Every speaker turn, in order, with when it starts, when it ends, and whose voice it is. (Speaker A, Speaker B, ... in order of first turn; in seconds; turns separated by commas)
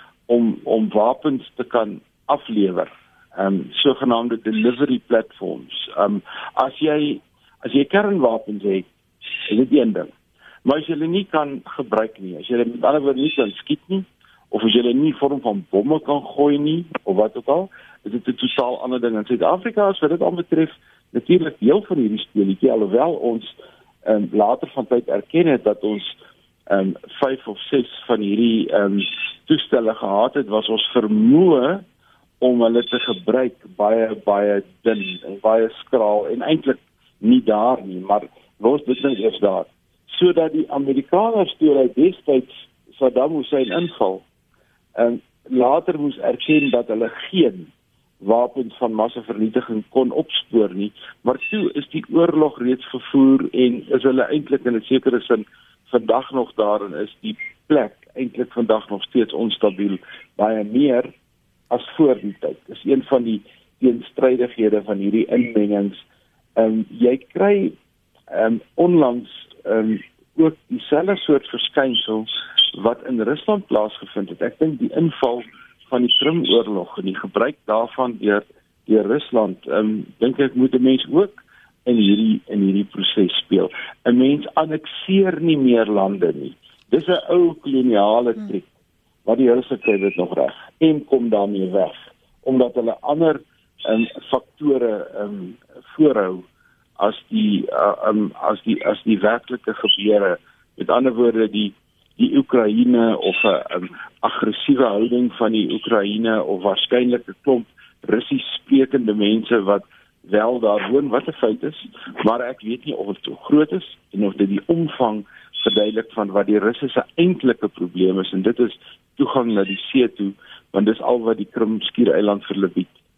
Speaker A: 0.3-8.9, Speaker A: 9.4-10.1, Speaker A: 10.6-26.1, Speaker A: 26.7-31.8, Speaker A: 32.4-44.2, Speaker A: 45.0-61.1, Speaker A: 61.7-66.0, Speaker A: 66.5-67.8, Speaker A: 68.3-88.7, Speaker A: 89.2-96.5, Speaker A: 97.0-122.9